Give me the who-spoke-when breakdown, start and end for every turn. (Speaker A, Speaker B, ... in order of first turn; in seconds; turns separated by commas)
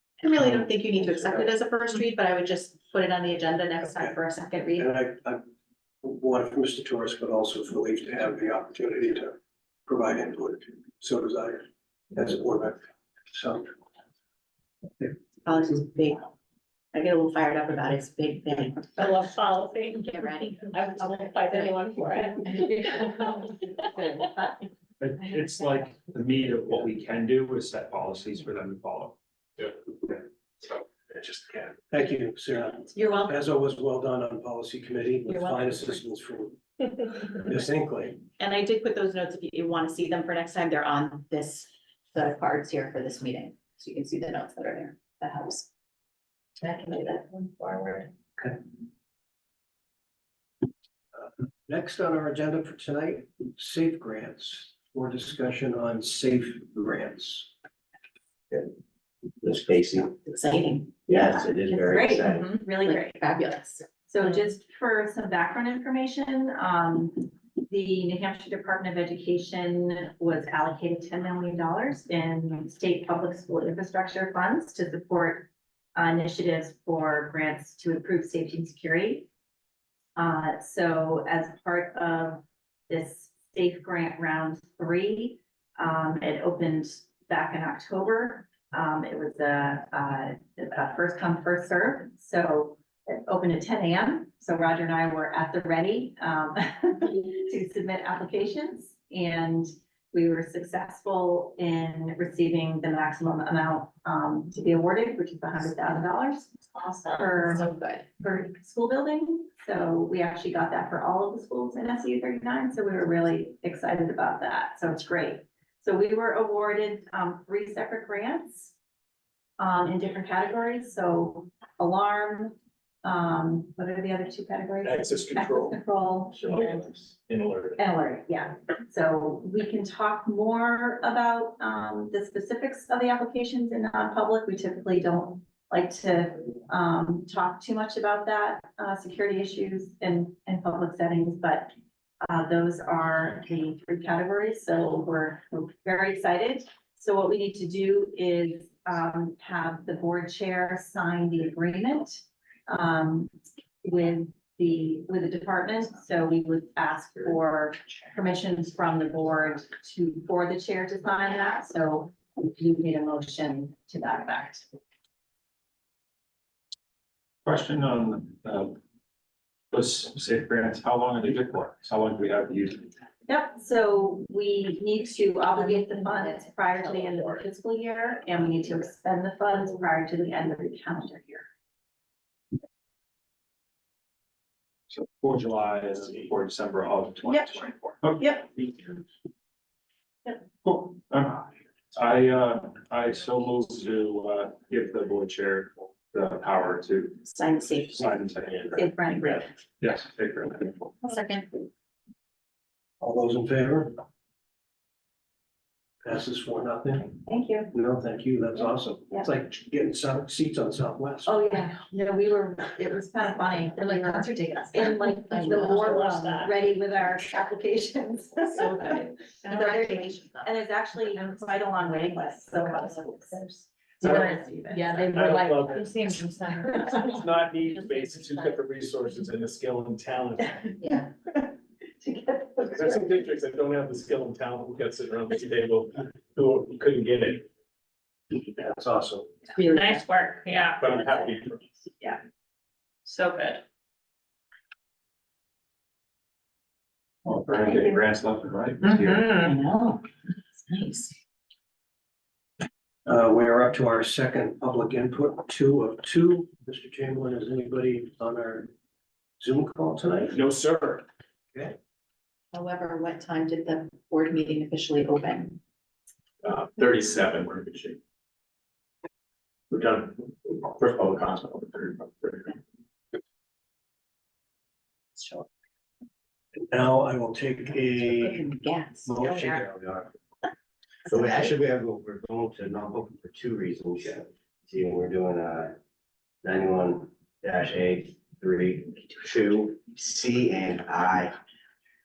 Speaker A: 0.2-4.9, Speaker B: 4.8-5.4, Speaker B: 6.0-13.8, Speaker A: 15.4-16.3, Speaker A: 16.9-19.1, Speaker C: 19.0-23.4, Speaker A: 20.1-23.5, Speaker D: 25.0-29.2, Speaker B: 31.9-38.2, Speaker A: 32.9-33.4, Speaker A: 35.3-35.9, Speaker A: 38.4-45.7, Speaker A: 46.6-48.1, Speaker B: 51.1-57.5, Speaker E: 59.4-60.1, Speaker A: 60.1-61.5, Speaker E: 61.1-62.5, Speaker F: 61.7-63.2, Speaker A: 62.8-63.9, Speaker F: 64.1-79.3, Speaker F: 80.2-118.7, Speaker A: 106.8-108.0, Speaker F: 119.6-126.9, Speaker G: 124.8-125.8, Speaker G: 126.3-127.8, Speaker F: 127.8-141.7, Speaker F: 142.2-153.3, Speaker F: 153.8-164.7, Speaker D: 167.4-168.8, Speaker D: 169.7-172.9, Speaker F: 173.3-181.4, Speaker A: 175.6-177.4, Speaker D: 184.9-189.0, Speaker D: 190.6-197.2, Speaker A: 197.2-198.1, Speaker D: 197.8-199.3, Speaker F: 198.7-199.4, Speaker D: 199.8-200.9, Speaker A: 201.0-201.6, Speaker B: 203.0-203.9, Speaker B: 206.0-207.2, Speaker F: 207.2-207.7, Speaker B: 207.7-211.4, Speaker F: 211.2-219.0, Speaker A: 214.2-214.7, Speaker A: 215.3-216.0, Speaker C: 215.5-216.5, Speaker A: 218.5-220.5, Speaker F: 219.5-225.1, Speaker A: 221.1-221.6, Speaker A: 222.5-223.4, Speaker G: 224.0-224.4, Speaker C: 224.7-227.1, Speaker G: 225.1-226.0, Speaker G: 226.8-230.7, Speaker C: 227.9-228.5, Speaker A: 230.8-231.1, Speaker F: 232.0-232.7, Speaker G: 232.7-237.4, Speaker B: 238.4-239.3, Speaker A: 239.6-240.1, Speaker C: 239.6-240.9, Speaker G: 240.8-241.7, Speaker C: 243.1-243.6, Speaker D: 247.2-249.5, Speaker A: 248.8-250.1, Speaker A: 250.6-251.2, Speaker B: 253.1-258.7, Speaker B: 259.4-260.4, Speaker G: 260.3-261.0, Speaker A: 262.5-265.6, Speaker G: 266.4-268.0, Speaker G: 269.7-272.6, Speaker A: 275.2-275.4, Speaker B: 276.7-278.4, Speaker A: 278.1-279.6, Speaker B: 279.1-279.6, Speaker E: 279.5-280.1, Speaker E: 281.1-285.8, Speaker E: 286.4-291.4